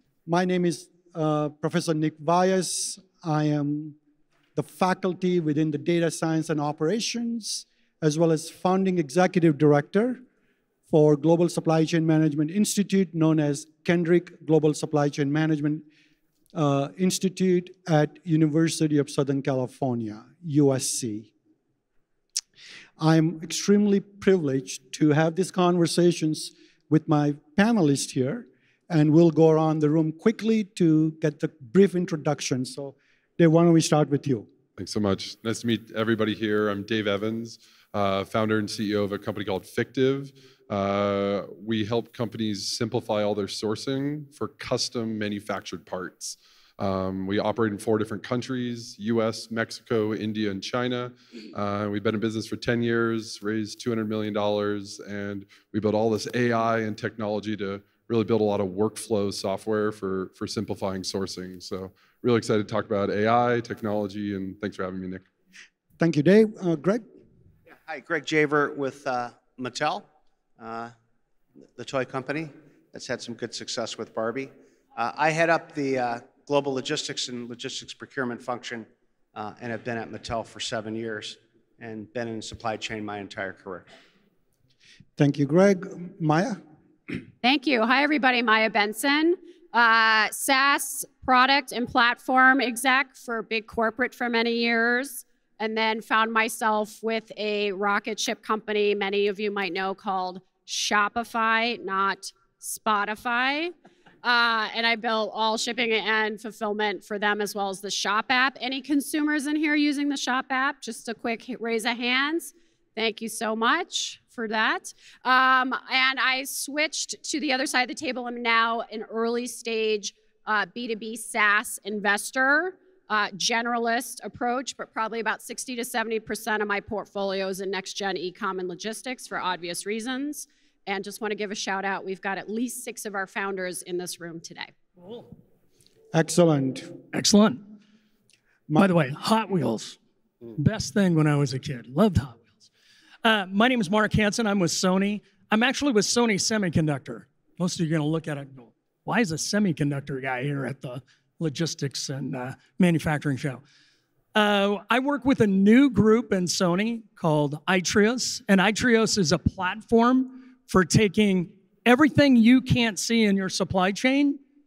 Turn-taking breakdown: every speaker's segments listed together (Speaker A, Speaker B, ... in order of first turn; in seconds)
Speaker A: 0.3-4.0, 4.5-10.2, 10.9-15.8, 16.5-21.3, 23.0-34.5, 66.0-67.0, 85.2-86.6, 136.1-136.9
Speaker B: 34.8-65.2
Speaker C: 67.9-70.1, 70.6-70.9, 71.8-83.9
Speaker D: 87.4-134.7
Speaker E: 135.0-135.3, 137.1-137.6, 138.8-140.0, 140.5-142.6, 143.2-153.6, 154.3-164.4